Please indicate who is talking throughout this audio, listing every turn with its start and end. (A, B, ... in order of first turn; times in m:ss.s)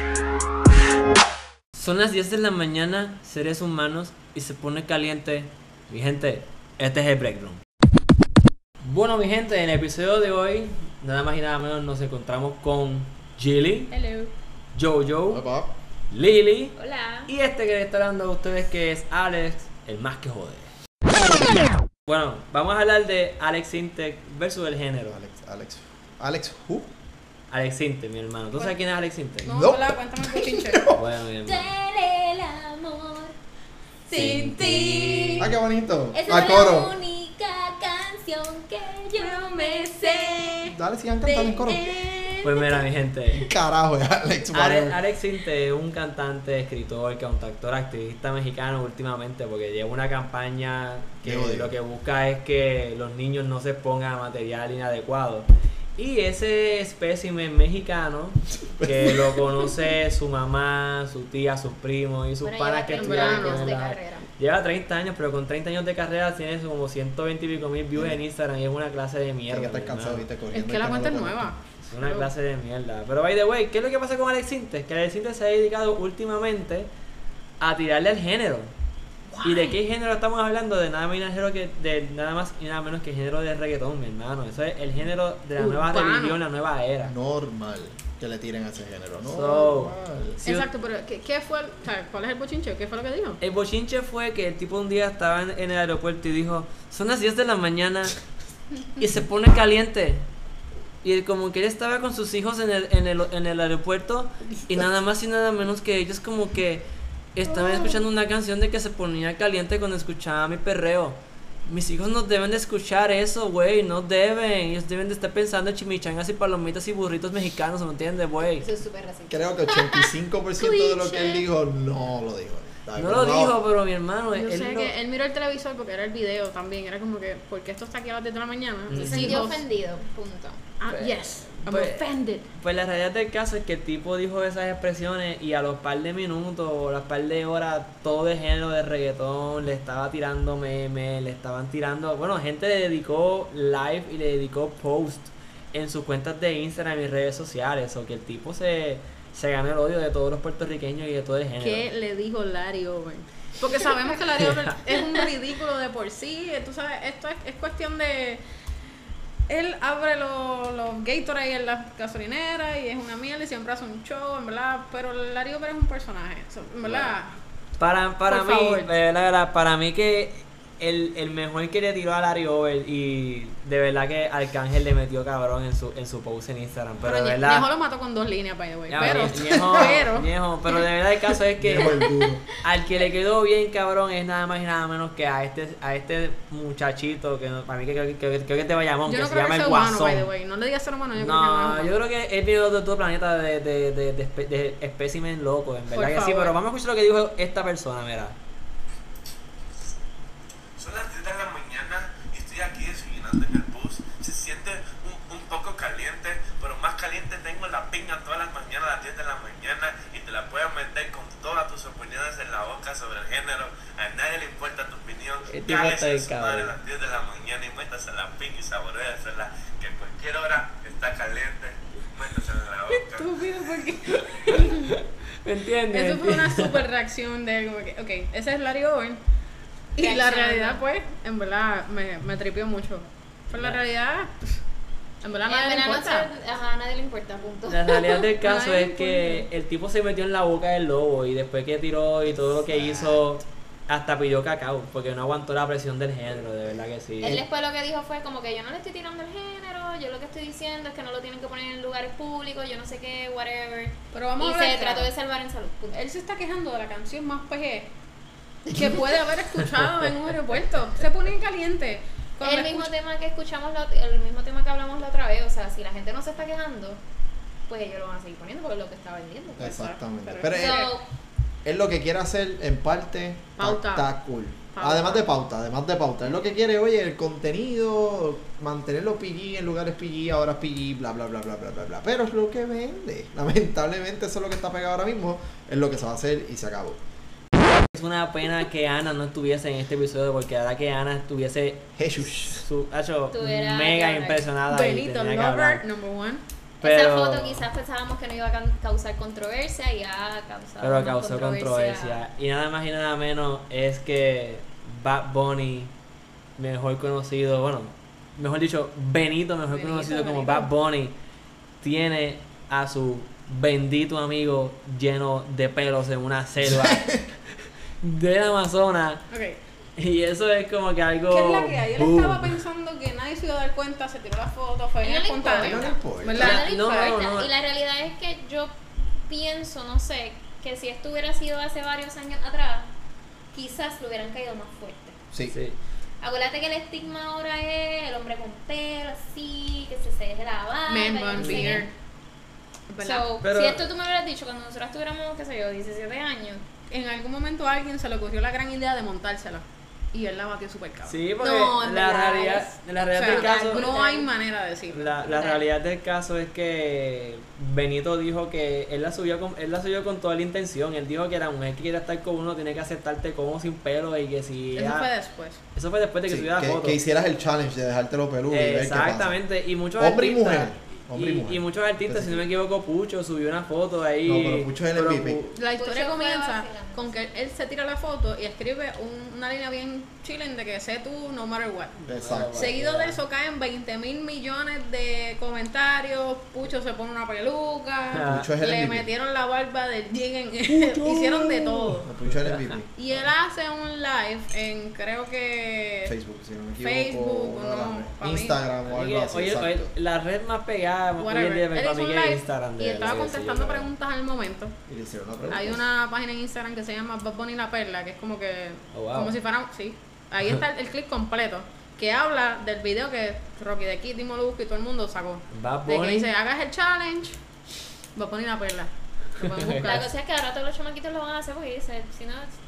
0:01.8-0:07.6 A
0:08.8-0:13.9 A
0:13.9-0:14.3 B
0:14.8-0:15.4 A
0:15.3-0:15.7 C
0:16.1-0:20.7 A
0:16.8-0:17.3 D
0:22.1-0:25.2 A
0:25.1-0:26.9 C
0:27.5-0:29.5 A
0:29.4-0:30.9 B
0:29.5-0:31.0 C
0:31.0-0:31.7 A
0:31.5-0:33.4 D
0:34.1-0:35.5 D
0:34.1-0:35.5 A
0:35.4-0:36.9 C
0:36.1-0:42.8 D
0:40.7-0:41.8 C
0:42.4-0:43.5 A
0:43.3-0:45.0 C
0:44.5-1:10.3 A
0:51.2-0:51.8 C
0:58.6-0:59.7 C
1:02.4-1:04.3 D
1:03.0-1:03.7 B
1:08.0-1:08.2 C
1:09.5-1:11.6 C
1:10.5-1:12.3 B
1:11.8-1:16.9 A
1:17.6-1:18.7 A
1:19.3-1:19.8 B
1:19.4-1:27.1 A
1:25.6-1:26.4 B
1:27.0-1:30.4 C
1:29.3-1:30.7 A
1:30.4-1:33.4 B
1:33.4-1:38.2 A
1:39.0-1:40.3 A
1:41.0-1:46.8 A
1:47.4-1:58.7 A
1:47.5-1:48.0 B
1:58.4-2:01.5 D
1:59.3-2:03.6 C
2:03.0-2:04.9 A
2:04.3-2:09.6 B
2:08.9-2:09.6 A
2:09.0-2:10.6 D
2:10.8-2:12.5 B
2:10.9-2:31.9 A
2:31.6-2:38.4 B
2:39.5-2:47.4 B
2:46.8-2:47.1 A
2:47.8-2:57.7 A
2:48.3-2:48.8 B
2:57.0-3:00.3 B
2:58.9-3:02.0 A
2:59.3-3:00.0 C
3:01.6-3:02.4 C
3:01.8-3:02.2 D
3:02.6-3:10.3 A
3:09.1-3:12.0 B
3:11.2-3:18.4 A
3:15.9-3:16.6 B
3:20.8-3:43.5 E
3:35.5-3:36.7 A
3:42.9-3:44.9 B
3:44.5-3:46.8 A
3:45.9-3:49.2 B
3:50.0-3:54.4 B
3:50.0-3:50.8 D
3:53.5-3:53.8 A
3:55.2-3:56.3 B
3:55.4-3:58.2 D
3:57.7-4:07.4 A
3:58.2-3:59.5 B
4:02.5-4:03.2 C
4:07.2-4:16.0 D
4:14.1-4:15.1 B
4:15.9-4:17.9 B
4:18.7-4:22.9 B
4:22.4-4:27.0 D
4:27.7-4:29.7 D
4:29.6-4:30.9 C
4:29.6-4:30.9 B
4:30.5-4:31.0 D
4:31.6-4:47.0 C
4:33.6-4:34.1 B
4:34.7-4:35.3 B
4:47.9-4:51.9 A
4:52.0-4:52.6 C
4:52.5-4:55.8 A
4:53.3-4:54.5 D
4:54.7-4:56.4 B
4:56.8-4:57.7 A
4:56.8-5:02.2 D
5:00.8-5:05.9 A
5:06.6-5:11.2 A
5:09.7-5:10.7 B
5:11.8-5:17.2 A
5:16.6-5:17.2 C
5:18.0-5:19.3 A
5:19.3-5:19.6 B
5:20.0-5:22.6 A
5:21.3-5:27.2 B
5:25.0-5:32.9 D
5:25.6-5:26.6 C
5:26.4-5:27.5 A
5:33.5-5:35.2 D
5:35.5-5:35.8 A
5:36.2-5:41.9 D
5:40.9-5:41.9 B
5:41.4-5:41.8 A
5:42.9-5:43.2 B
5:43.0-5:46.6 D
5:43.4-5:43.9 A
5:46.9-5:51.2 B
5:51.1-5:53.9 A
5:51.4-5:54.3 D
5:53.2-5:55.6 B
5:54.9-6:05.1 A
6:04.8-6:05.6 B
6:05.8-6:07.0 A
6:06.3-6:09.4 C
6:08.5-6:15.6 A
6:10.0-6:12.4 C
6:14.2-6:15.4 C
6:15.6-6:22.0 B
6:15.8-6:17.2 D
6:22.0-6:23.2 A
6:22.1-6:22.7 C
6:22.5-6:32.1 B
6:28.1-6:28.5 A
6:28.3-6:29.1 C
6:30.7-6:33.3 C
6:32.2-6:32.8 A
6:33.0-6:36.1 B
6:36.0-6:39.9 C
6:36.8-6:38.6 B
6:38.9-6:43.9 A
6:41.2-6:44.8 B
6:44.9-6:45.9 C
6:45.5-6:57.4 B
6:48.9-6:49.4 A
6:55.5-6:56.3 A
6:58.2-7:00.1 B
6:59.4-7:00.0 A
6:59.8-7:02.6 D